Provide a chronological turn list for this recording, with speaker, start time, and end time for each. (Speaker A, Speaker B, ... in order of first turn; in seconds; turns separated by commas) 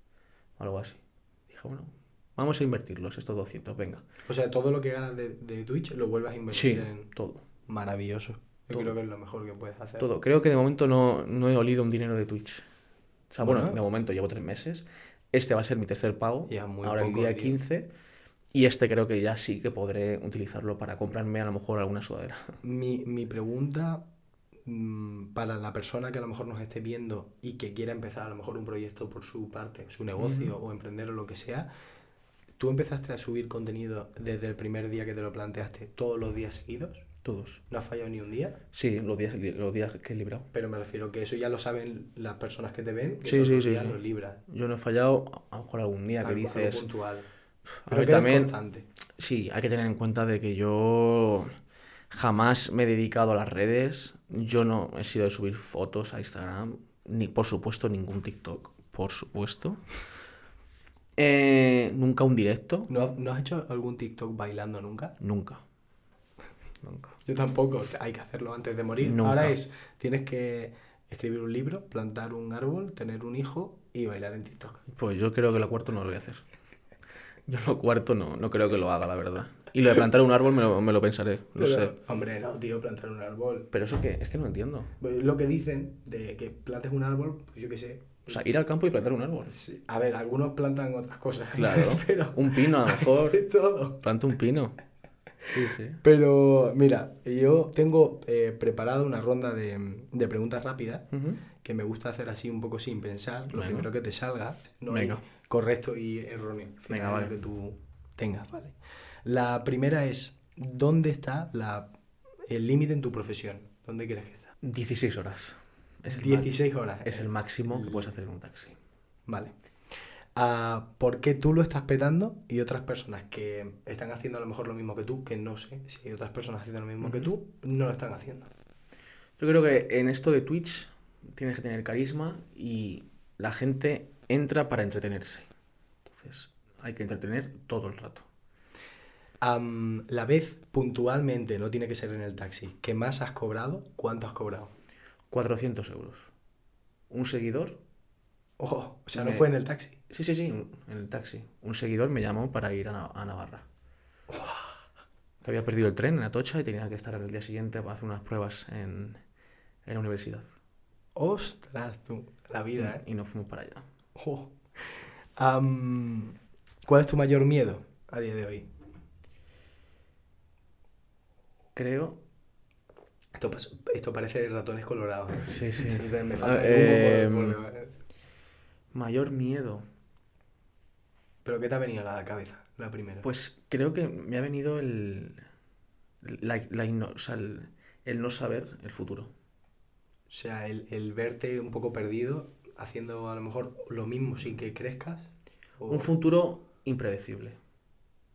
Speaker A: 0.6-4.0, Speaker B: 4.3-7.1, Speaker A: 6.5-7.4, Speaker B: 7.7-10.1, Speaker A: 10.0-12.7, Speaker A: 13.3-17.9, Speaker B: 13.4-13.8, Speaker B: 16.5-17.6, Speaker A: 18.5-22.6, Speaker B: 22.6-24.1, Speaker B: 24.7-31.7, Speaker A: 30.2-30.5, Speaker B: 32.6-37.1, Speaker A: 37.2-37.6, Speaker B: 37.7-38.6, Speaker A: 38.7-40.5, Speaker B: 40.5-44.4, Speaker A: 43.2-46.9, Speaker B: 46.2-47.3, Speaker A: 47.9-48.5, Speaker B: 47.9-48.9, Speaker A: 49.2-51.5, Speaker A: 52.1-59.8, Speaker A: 61.2-62.9, Speaker B: 62.9-65.2, Speaker A: 65.2-65.6, Speaker A: 66.8-67.2, Speaker B: 67.3-74.8, Speaker A: 69.0-69.5, Speaker A: 74.9-76.5, Speaker A: 77.5-81.9, Speaker B: 81.6-83.7, Speaker A: 83.7-84.9, Speaker B: 85.0-88.4, Speaker A: 88.3-89.5, Speaker B: 89.4-94.0, Speaker A: 91.5-93.4, Speaker A: 94.0-94.8, Speaker A: 95.5-96.0, Speaker B: 96.0-101.1, Speaker A: 101.1-101.4, Speaker B: 101.6-111.9, Speaker A: 103.5-103.9, Speaker A: 104.9-105.2, Speaker A: 106.9-107.3, Speaker B: 112.5-114.5, Speaker A: 114.6-116.5, Speaker B: 116.1-118.1, Speaker A: 117.0-118.8, Speaker B: 119.3-119.5, Speaker B: 120.3-128.5, Speaker A: 127.0-127.3, Speaker A: 129.4-135.5, Speaker A: 136.1-138.3, Speaker B: 139.4-144.7, Speaker A: 145.3-146.3, Speaker A: 147.1-147.8, Speaker B: 148.6-150.0, Speaker A: 149.2-149.5, Speaker A: 150.1-153.7, Speaker B: 154.3-154.8, Speaker A: 155.4-159.2, Speaker A: 159.8-160.5, Speaker B: 161.2-163.0, Speaker A: 162.8-163.8, Speaker B: 164.2-168.7, Speaker A: 171.8-172.2, Speaker B: 173.3-177.9, Speaker A: 175.5-177.6, Speaker A: 178.9-179.8, Speaker B: 181.4-183.3, Speaker A: 183.2-185.4, Speaker A: 186.2-189.3, Speaker B: 190.3-196.1, Speaker A: 195.9-197.6